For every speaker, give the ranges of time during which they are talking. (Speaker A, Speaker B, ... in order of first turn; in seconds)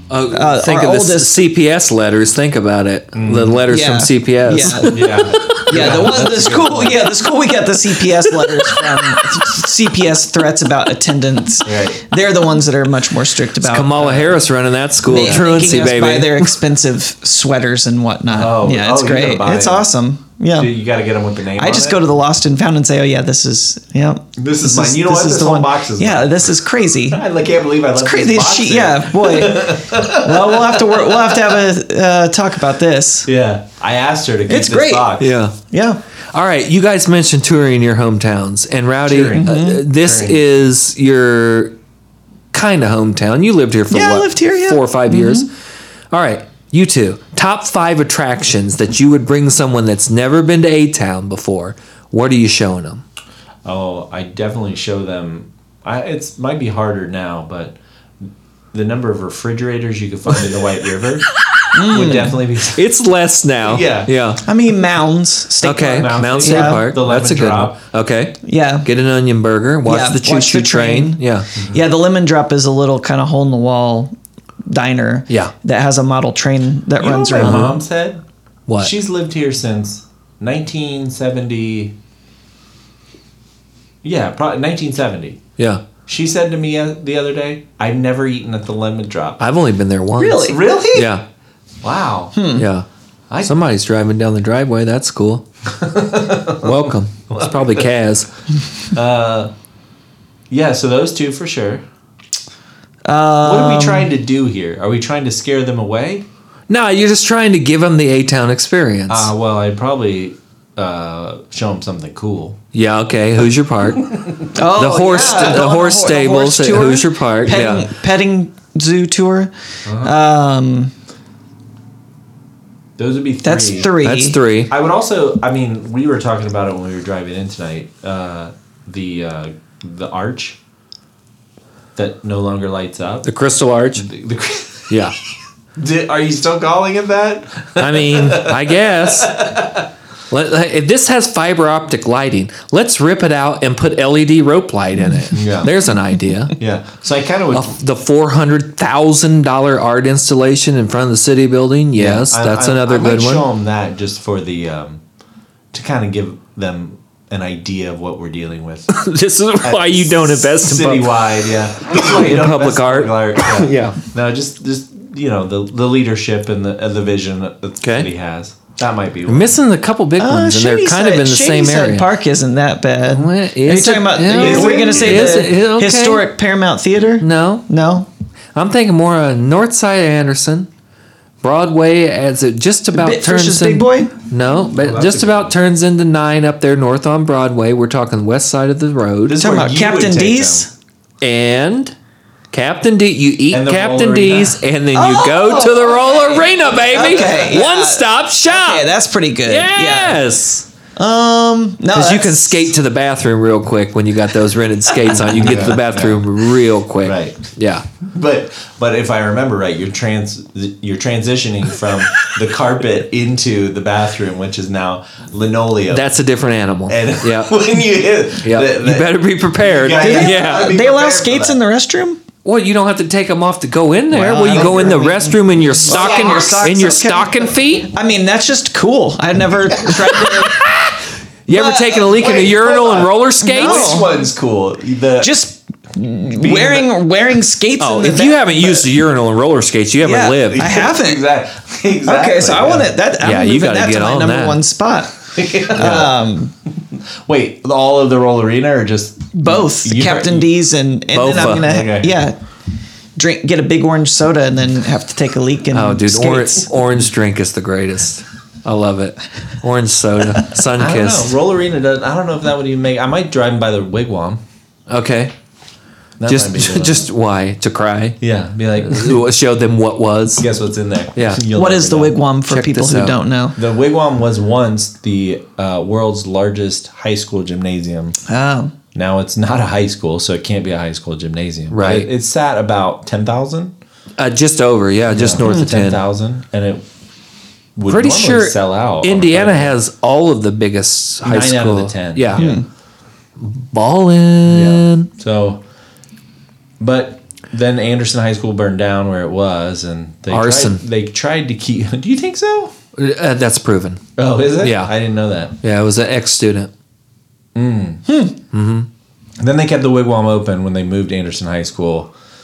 Speaker A: 0.1-6.0, 8.6-9.1, 13.6-16.6, 35.2-35.5, 36.3-41.8, 42.5-45.5, 46.1-53.0, 62.7-64.4, 65.6-71.5, 77.4-77.8, 78.7-78.9, 85.6-85.8, 89.4-91.2, 92.6-92.9, 93.4-95.5, 96.6-98.3, 106.7-109.3, 112.7-114.1, 114.7-117.9, 124.0-124.7, 133.2-134.1, 137.8-139.7, 140.3-146.6, 147.5-153.5, 158.9-164.0, 167.8-168.1, 169.3-172.1, 173.1-176.3, 177.2-177.7, 178.6-180.7, 181.4-189.4, 191.2-191.9, 192.5-198.9, 199.4-200.7, 201.9-207.8, 215.9-217.5, 218.4-220.8, 222.4-227.9, 230.2-230.9, 231.5-234.0, 237.8-240.8, 243.2-244.6, 251.1-251.7, 255.7-261.3, 264.9-265.3, 266.3-268.2, 268.8-270.5, 271.2-271.4, 272.5-273.2, 281.7-282.1, 284.2-286.0, 287.9-292.6, 293.4-295.1, 300.3-300.8, 303.0-304.0, 304.6-304.9, 305.6-306.7, 308.5-308.9
Speaker B: 0.3-1.5, 3.7-14.2, 15.0-20.7, 21.6-27.2, 28.0-33.3, 34.5-35.2, 35.7-36.0, 39.3-39.8, 43.9-45.5, 61.7-62.4, 64.5-66.8, 68.4-68.9, 69.8-74.1, 74.7-77.8, 90.2-90.6, 92.3-92.7, 103.0-104.1, 114.5-120.9, 123.4-124.4, 170.2-178.1, 182.9-184.1, 189.4-190.7, 194.9-200.2, 201.0-202.7, 205.1-205.4, 219.9-222.2, 224.1-230.6, 231.5-232.2, 233.4-234.1, 235.2-238.9, 240.0-241.2, 242.1-246.5, 249.3-252.4, 253.2-256.7, 271.5-273.6, 278.3-278.7, 292.4-292.6, 308.1-308.3
Speaker C: 3.1-3.6, 4.6-7.3, 11.7-12.1, 14.0-14.4, 18.3-19.9, 20.6-22.0, 24.4-26.5, 27.1-31.4, 33.3-35.4, 39.0-40.4, 53.6-57.8, 58.7-62.9, 63.6-64.1, 65.8-67.8, 71.6-71.8, 77.0-78.2, 78.8-82.0, 84.0-85.4, 86.1-89.4, 90.5-91.1, 91.8-92.3, 93.3-93.7, 95.7-97.9, 98.9-99.5, 100.5-101.8, 103.4-106.3, 109.1-112.6, 114.0-114.6, 115.1-115.6, 119.8-120.2, 123.0-123.9, 124.7-130.6, 132.0-133.3, 134.0-135.0, 135.8-139.9, 145.3-145.7, 146.6-147.7, 152.0-155.0, 155.7-158.9, 159.6-169.5, 174.3-175.5, 184.5-185.5, 189.3-190.7, 193.5-194.6, 205.2-206.3, 207.0-207.4, 208.0-216.1, 216.9-221.6, 225.9-227.2, 232.0-235.3, 236.3-236.9, 240.5-242.9, 245.3-246.2, 247.3-250.5, 251.3-252.2, 260.8-264.4, 266.2-267.1, 268.2-269.3, 270.4-272.1, 273.6-278.1, 278.9-283.7, 285.1-286.9, 287.8-289.8, 291.2-292.6, 294.5-295.6, 296.8-302.8, 304.2-305.6, 307.6-308.0, 309.4-312.1